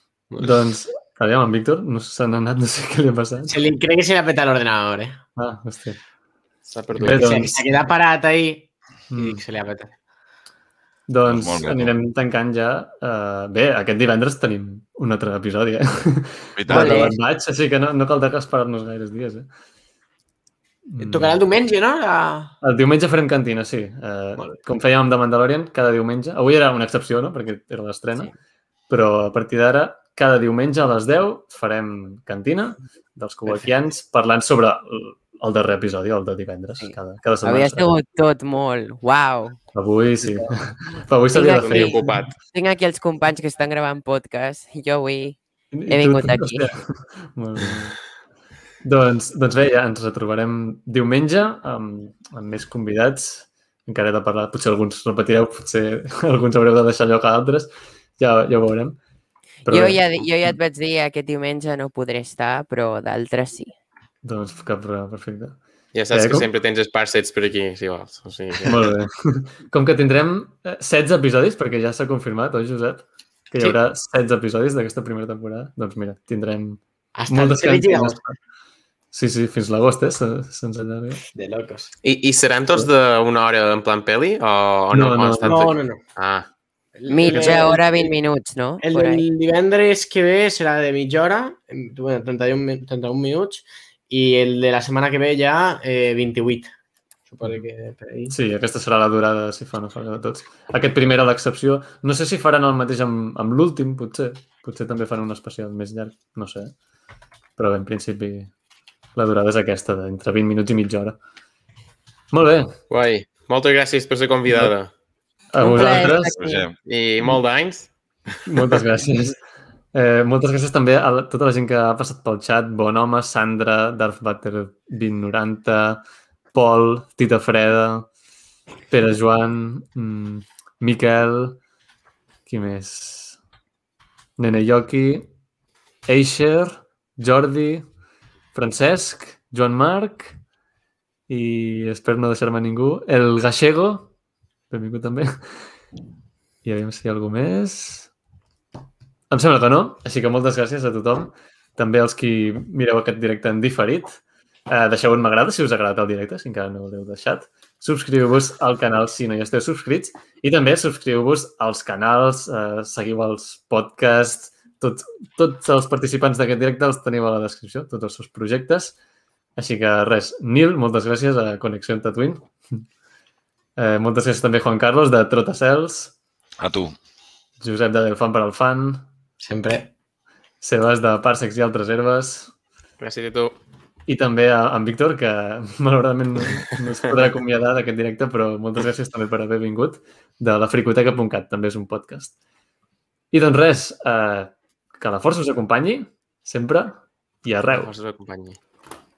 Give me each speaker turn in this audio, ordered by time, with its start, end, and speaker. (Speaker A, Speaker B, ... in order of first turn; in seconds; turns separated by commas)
Speaker A: 0.3-3.5, Speaker B: 3.5-5.2, Speaker A: 5.4-6.0, Speaker C: 6.7-7.4, Speaker A: 7.0-7.7, Speaker B: 7.0-9.9, Speaker A: 9.1-9.4, Speaker A: 11.1-19.5, Speaker D: 11.2-11.9, Speaker D: 16.6-17.1, Speaker B: 16.7-17.1, Speaker E: 16.7-17.1, Speaker A: 20.9-21.4, Speaker B: 21.0-22.5, Speaker A: 22.6-28.3, Speaker A: 28.9-37.9, Speaker E: 36.8-39.6, Speaker A: 39.7-42.2, Speaker E: 41.3-45.4, Speaker C: 41.5-42.4, Speaker A: 45.7-48.0, Speaker E: 45.9-46.7, Speaker A: 48.8-59.0, Speaker A: 59.6-60.6, Speaker E: 59.7-63.7, Speaker A: 64.2-66.5, Speaker C: 65.9-68.8, Speaker A: 68.7-78.4, Speaker B: 77.2-78.2, Speaker A: 79.1-81.2, Speaker B: 81.3-81.9, Speaker C: 82.0-86.5, Speaker A: 84.9-85.6, Speaker B: 85.4-86.0, Speaker B: 87.0-88.2, Speaker E: 87.1-89.2, Speaker C: 87.2-87.6, Speaker B: 88.8-96.7, Speaker B: 97.3-98.3, Speaker A: 98.3-106.7, Speaker A: 107.6-108.5, Speaker A: 109.2-111.2, Speaker A: 112.3-112.8, Speaker C: 112.9-114.9, Speaker A: 114.5-114.7, Speaker A: 115.5-116.4, Speaker E: 115.6-116.7, Speaker D: 116.2-116.7, Speaker C: 116.8-118.8, Speaker A: 118.5-119.4, Speaker A: 119.9-126.0, Speaker A: 126.5-128.1, Speaker A: 128.9-131.6, Speaker A: 132.4-133.4, Speaker A: 134.4-135.3, Speaker A: 136.1-137.9, Speaker A: 138.5-140.4, Speaker A: 141.3-144.1, Speaker A: 144.7-145.6, Speaker A: 146.6-148.1, Speaker A: 149.3-168.9, Speaker A: 169.6-172.8, Speaker A: 173.8-176.1, Speaker D: 176.6-176.9, Speaker A: 177.6-179.1, Speaker B: 179.4-179.9, Speaker A: 180.6-182.5, Speaker C: 183.0-183.6, Speaker A: 184.1-192.3, Speaker A: 193.3-197.9, Speaker C: 197.7-198.6